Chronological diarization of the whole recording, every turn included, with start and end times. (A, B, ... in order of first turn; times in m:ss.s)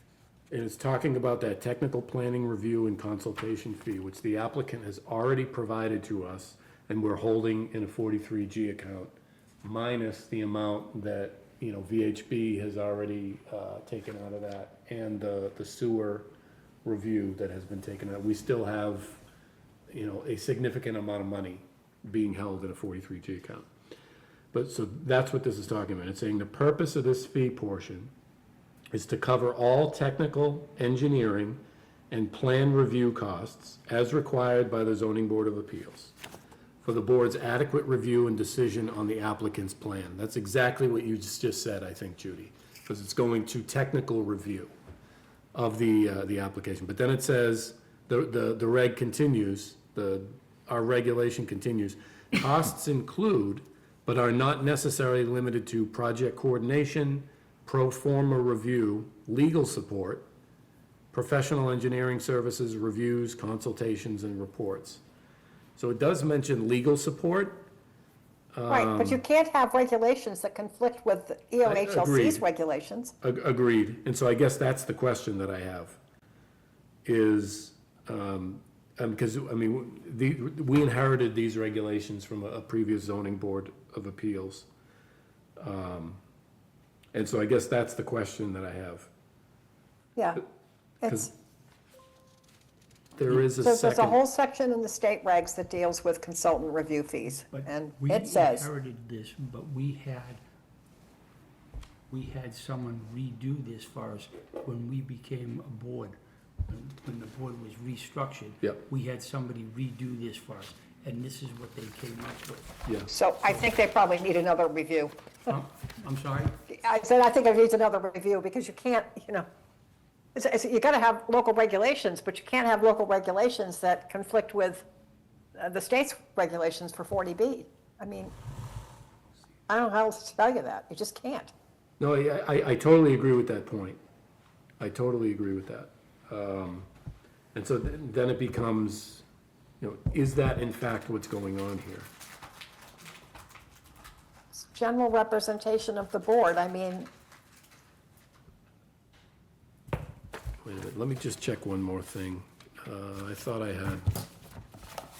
0:00.5-0:16.3 A
0:16.8-0:19.2 A
0:19.9-0:23.7 A
0:24.5-0:28.1 A
0:28.9-0:31.6 A
0:32.1-0:36.1 A
0:36.8-0:44.7 A
0:45.5-1:00.2 A
1:01.1-1:05.0 A
1:05.8-1:07.7 A
1:08.5-1:09.2 A
1:08.7-1:13.1 B
1:11.6-1:12.4 A
1:13.2-1:16.0 A
1:17.0-1:24.7 A
1:25.6-1:26.2 A
1:27.1-1:29.1 A
1:30.2-1:30.4 B
1:31.0-1:31.3 B
1:33.1-1:34.2 A
1:33.6-1:38.7 B
1:37.5-1:40.4 C
1:42.1-1:46.2 C
1:46.7-1:52.8 C
1:53.1-1:55.1 B
1:55.5-1:56.5 C
1:56.7-1:59.4 B
2:00.3-2:04.8 B
2:05.6-2:08.3 B
2:09.7-2:11.5 B
2:12.0-2:14.0 A
2:14.8-2:16.9 A
2:17.5-2:19.2 A
2:19.8-2:22.1 A
2:24.5-2:27.1 B
2:30.6-2:34.1 A